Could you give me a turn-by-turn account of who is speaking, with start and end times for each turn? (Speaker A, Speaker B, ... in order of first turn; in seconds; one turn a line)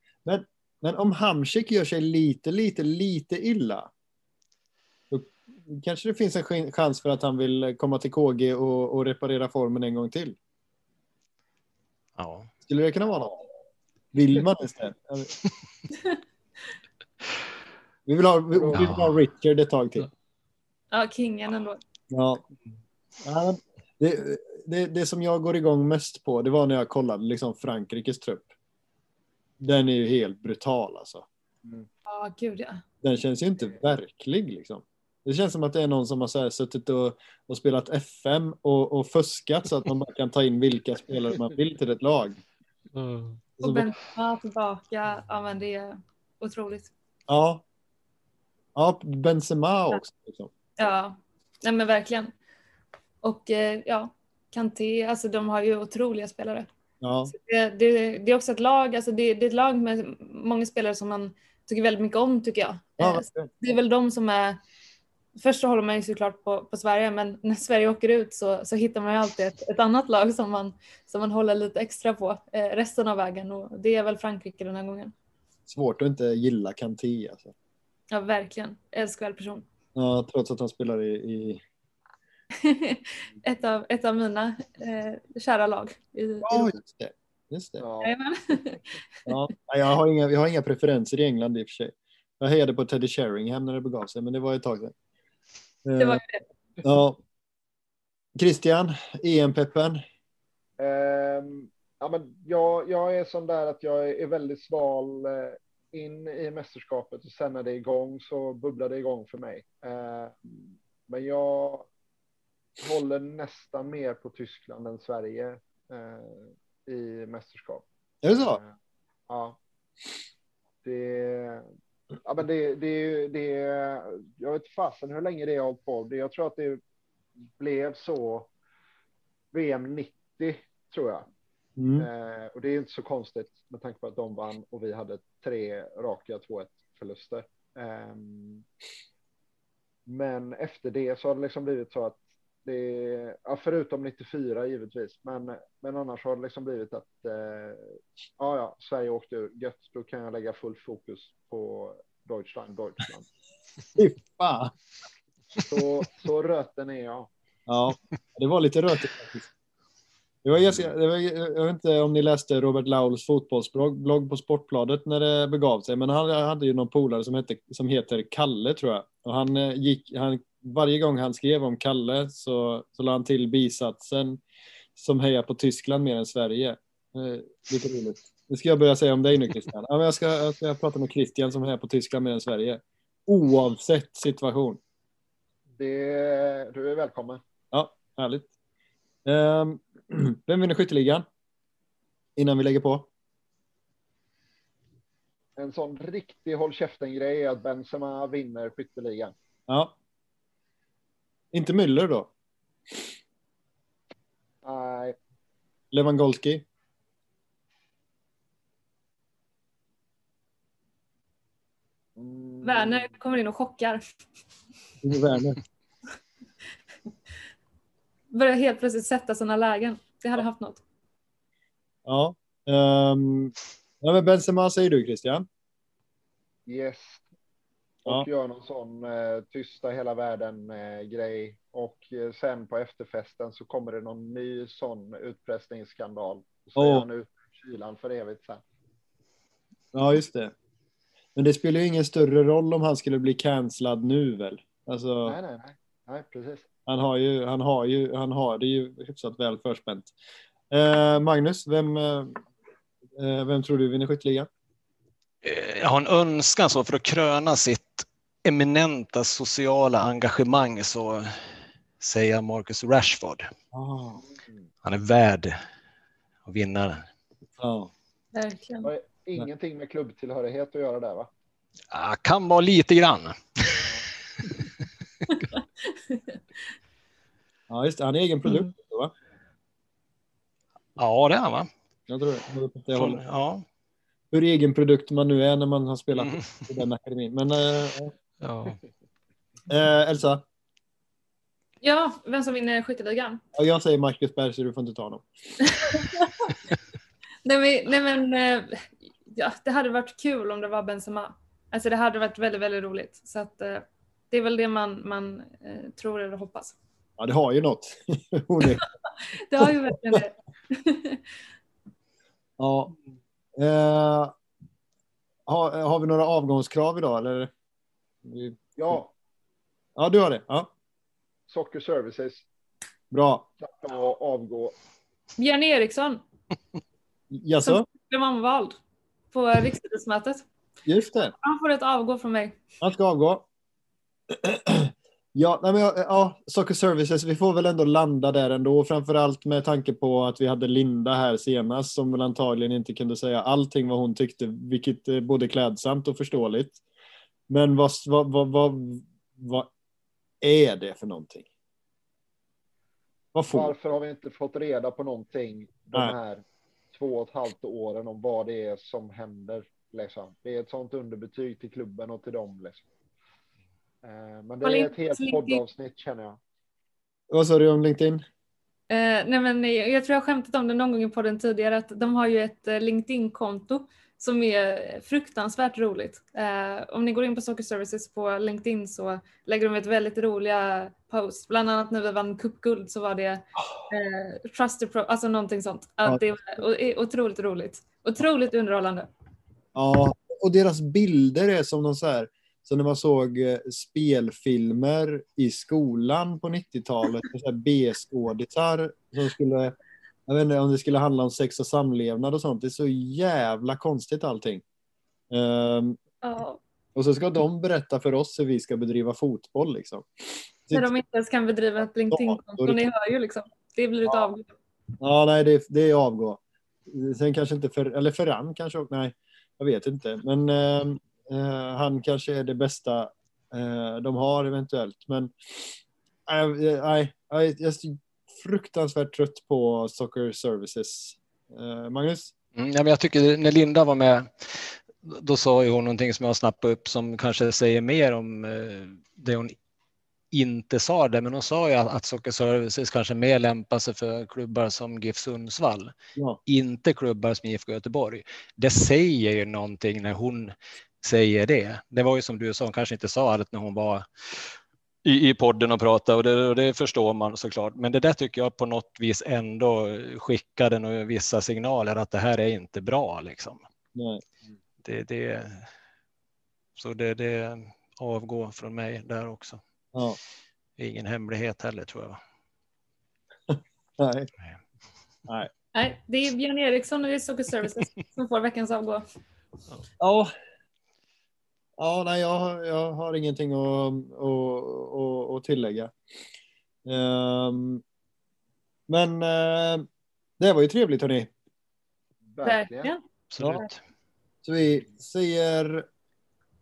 Speaker A: 0.2-3.9
Speaker A: 5.1-10.4
Speaker B: 12.2-12.5
Speaker A: 12.7-13.4
Speaker A: 14.1-15.3
Speaker A: 18.1-20.1
Speaker C: 18.5-18.9
Speaker B: 18.7-19.1
Speaker D: 20.9-21.8
Speaker A: 22.1-22.4
Speaker A: 23.2-28.5
Speaker A: 29.6-31.2
Speaker D: 32.0-32.8
Speaker A: 33.0-42.4
Speaker B: 42.9-43.4
Speaker A: 43.6-43.9
Speaker D: 43.6-46.9
Speaker A: 47.3-47.6
Speaker A: 48.7-50.5
Speaker D: 50.8-52.3
Speaker D: 53.2-56.7
Speaker A: 57.0-57.3
Speaker D: 57.3-64.6
Speaker A: 63.0-63.5
Speaker D: 65.4-75.1
Speaker A: 75.7-77.5
Speaker D: 78.1-79.6
Speaker A: 79.9-81.6
Speaker D: 82.6-86.8
Speaker A: 86.4-87.8
Speaker C: 87.8-88.2
Speaker D: 88.0-89.3
Speaker A: 89.3-94.9
Speaker A: 95.8-96.2
Speaker D: 96.0-96.4
Speaker A: 96.8-97.2
Speaker A: 98.3-100.0
Speaker C: 100.8-111.9
Speaker C: 112.8-117.8
Speaker A: 118.2-118.6
Speaker C: 118.4-118.7
Speaker C: 119.3-119.6
Speaker C: 120.8-121.7
Speaker C: 122.2-126.8
Speaker C: 127.6-128.5
Speaker C: 129.5-131.3
Speaker A: 131.8-132.1
Speaker C: 132.0-138.6
Speaker C: 140.1-153.3
Speaker A: 153.9-154.7
Speaker C: 155.6-157.3
Speaker A: 157.7-159.5
Speaker A: 160.4-174.4
Speaker A: 174.9-184.8
Speaker C: 185.8-187.4
Speaker A: 187.7-188.5
Speaker A: 189.2-191.2
Speaker A: 192.3-193.1
Speaker C: 195.6-199.3
Speaker A: 199.7-199.9
Speaker A: 201.5-202.3
Speaker C: 204.6-205.2
Speaker A: 205.9-206.6
Speaker C: 212.2-213.1
Speaker D: 212.6-214.0
Speaker A: 215.0-215.6
Speaker D: 218.3-220.8
Speaker A: 222.1-225.4
Speaker C: 226.7-227.2
Speaker C: 228.0-238.6
Speaker A: 236.8-237.1
Speaker A: 239.9-240.5
Speaker A: 241.3-245.4
Speaker C: 245.2-246.7
Speaker A: 246.9-250.1
Speaker A: 250.7-252.4
Speaker A: 253.2-254.5
Speaker B: 255.4-263.5
Speaker A: 263.7-264.2
Speaker C: 264.3-264.6
Speaker B: 264.8-265.6
Speaker B: 266.4-267.1
Speaker A: 267.6-267.9
Speaker D: 268.3-268.9
Speaker C: 268.8-271.3
Speaker B: 271.9-273.9
Speaker D: 275.5-276.4
Speaker A: 277.7-279.1
Speaker B: 281.0-281.7
Speaker A: 282.1-283.2
Speaker B: 282.9-283.6
Speaker A: 284.3-288.1
Speaker B: 286.2-286.5
Speaker B: 288.4-288.8
Speaker A: 289.7-290.4
Speaker D: 291.8-293.4
Speaker A: 293.5-295.2
Speaker D: 295.7-296.5
Speaker D: 297.4-306.8
Speaker A: 307.2-308.8
Speaker D: 308.7-311.2
Speaker A: 309.6-310.2
Speaker A: 312.6-312.9
Speaker A: 313.6-314.3
Speaker A: 315.5-317.5
Speaker A: 318.2-319.0
Speaker C: 318.8-319.1
Speaker A: 319.9-320.7
Speaker C: 321.5-322.4
Speaker A: 323.1-323.4
Speaker C: 323.6-324.7
Speaker D: 325.4-326.2
Speaker A: 327.3-327.9
Speaker D: 327.6-328.8
Speaker D: 329.3-330.4
Speaker A: 330.9-331.3
Speaker D: 331.4-332.6
Speaker A: 332.8-333.4
Speaker A: 334.3-346.8
Speaker A: 347.5-349.7
Speaker A: 350.4-351.5
Speaker A: 353.3-353.7
Speaker C: 353.5-362.8
Speaker C: 364.0-366.4
Speaker D: 364.6-365.6
Speaker A: 367.3-368.2
Speaker D: 368.9-389.1
Speaker A: 389.7-399.7
Speaker A: 400.3-404.6
Speaker A: 405.3-406.0
Speaker D: 406.2-406.6
Speaker A: 406.9-410.1
Speaker D: 410.7-414.5
Speaker A: 412.1-412.8
Speaker A: 415.0-432.3
Speaker B: 432.6-439.5
Speaker B: 440.3-445.9
Speaker B: 446.5-454.5
Speaker B: 455.0-463.6
Speaker A: 463.9-464.2
Speaker B: 464.8-465.7
Speaker B: 466.8-469.6
Speaker A: 469.9-470.2
Speaker B: 470.8-472.2
Speaker A: 473.5-474.3
Speaker D: 475.7-479.0
Speaker A: 480.0-480.3
Speaker A: 481.8-485.9
Speaker A: 486.9-487.8
Speaker A: 488.9-489.9
Speaker A: 490.4-491.3
Speaker C: 492.3-492.9
Speaker D: 492.4-493.0
Speaker B: 493.3-493.8
Speaker A: 494.4-495.9